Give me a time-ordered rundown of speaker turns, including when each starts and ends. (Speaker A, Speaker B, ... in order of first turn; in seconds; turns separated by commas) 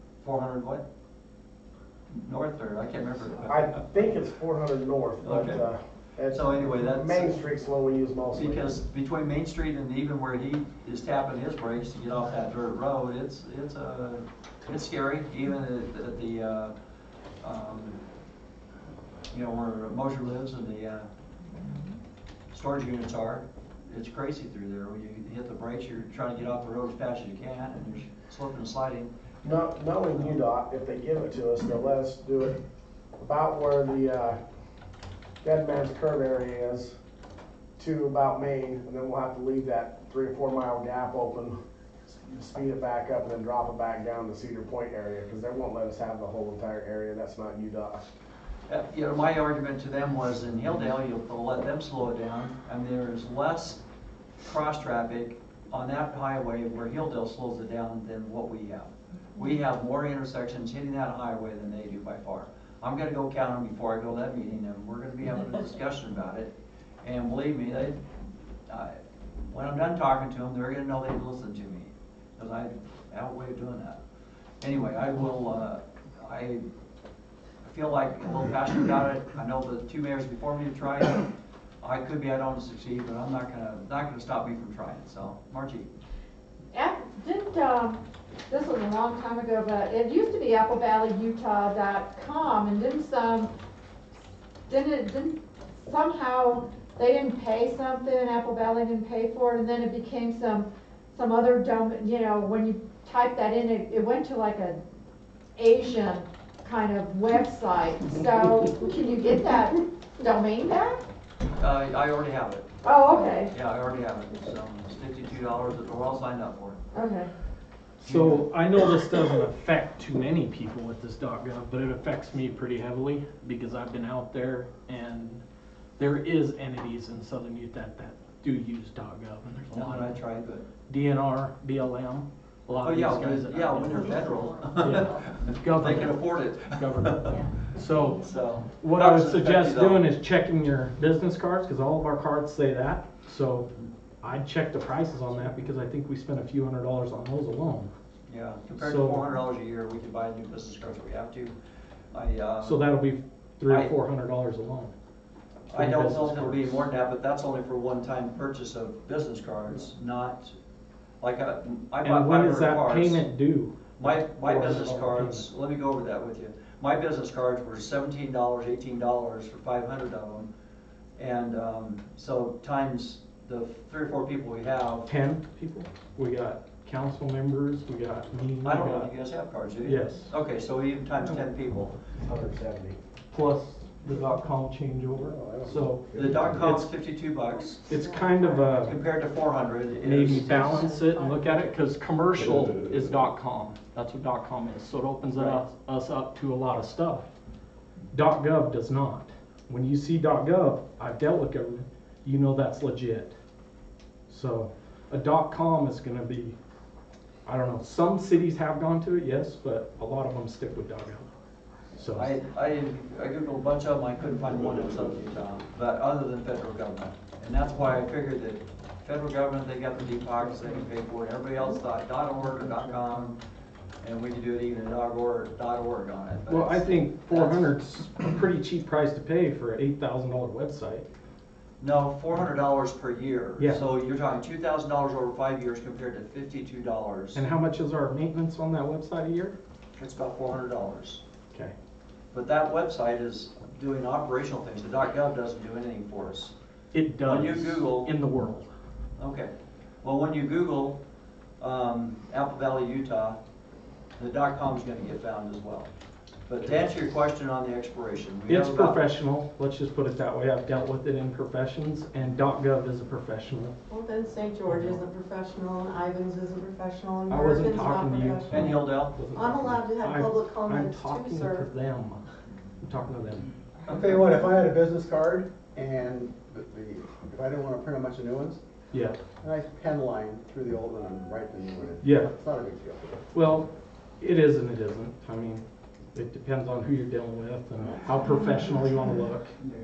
Speaker A: 0.2-0.8, Speaker A: 2.1-3.8, Speaker B: 3.5-8.8, Speaker A: 5.2-5.6, Speaker A: 6.3-7.4, Speaker A: 8.3-16.8, Speaker A: 17.4-18.0, Speaker A: 19.3-21.1, Speaker A: 22.5-29.1, Speaker B: 29.4-32.6, Speaker B: 33.2-34.4, Speaker B: 35.4-36.9, Speaker B: 37.8-48.0, Speaker A: 48.7-53.8, Speaker A: 54.4-68.0, Speaker A: 68.7-74.0, Speaker A: 74.6-76.6, Speaker A: 77.6-81.3, Speaker A: 81.8-85.9, Speaker C: 86.7-93.5, Speaker C: 94.7-104.8, Speaker C: 105.6-111.0, Speaker A: 111.6-112.7, Speaker C: 112.8-113.5, Speaker A: 113.5-116.8, Speaker C: 116.9-117.3, Speaker D: 118.0-125.4, Speaker A: 118.0-118.4, Speaker D: 126.0-130.2, Speaker A: 129.7-130.6, Speaker D: 130.9-134.2, Speaker A: 132.8-137.5, Speaker D: 134.8-143.7, Speaker A: 138.1-140.1, Speaker D: 144.2-147.9, Speaker A: 148.3-151.5, Speaker D: 148.8-149.2, Speaker A: 152.1-152.8, Speaker D: 152.6-154.9, Speaker A: 153.7-153.9, Speaker D: 155.7-156.9, Speaker A: 155.7-160.5, Speaker A: 161.2-163.2, Speaker D: 162.0-165.5, Speaker A: 164.0-170.5, Speaker A: 171.2-175.1, Speaker D: 175.1-179.1, Speaker A: 178.6-181.9, Speaker D: 179.8-180.3, Speaker B: 182.2-183.0, Speaker D: 183.3-186.9, Speaker E: 185.2-186.6, Speaker A: 186.1-187.8, Speaker F: 187.7-188.7, Speaker D: 187.9-189.0, Speaker A: 188.8-190.9, Speaker D: 190.0-197.3, Speaker F: 190.6-191.5, Speaker A: 195.3-195.6, Speaker D: 198.1-203.3, Speaker D: 204.3-206.6, Speaker D: 207.4-211.3, Speaker D: 211.9-212.3, Speaker A: 212.1-223.4, Speaker A: 224.0-227.7, Speaker D: 226.5-231.0, Speaker A: 231.8-237.4, Speaker D: 233.6-233.9, Speaker D: 237.3-239.6, Speaker A: 239.9-241.2, Speaker A: 242.3-246.5, Speaker D: 246.9-248.7, Speaker A: 247.2-248.2, Speaker A: 249.2-249.5, Speaker A: 250.0-251.0, Speaker A: 251.6-253.4, Speaker A: 254.2-255.9, Speaker A: 256.5-259.0, Speaker D: 258.5-263.8, Speaker F: 263.9-271.7, Speaker D: 264.7-265.0, Speaker D: 267.3-272.2, Speaker A: 268.5-269.1, Speaker D: 272.8-273.5, Speaker E: 273.9-278.6, Speaker D: 278.9-279.2, Speaker E: 279.4-283.2, Speaker D: 282.0-282.3, Speaker D: 283.3-283.7, Speaker D: 284.2-289.5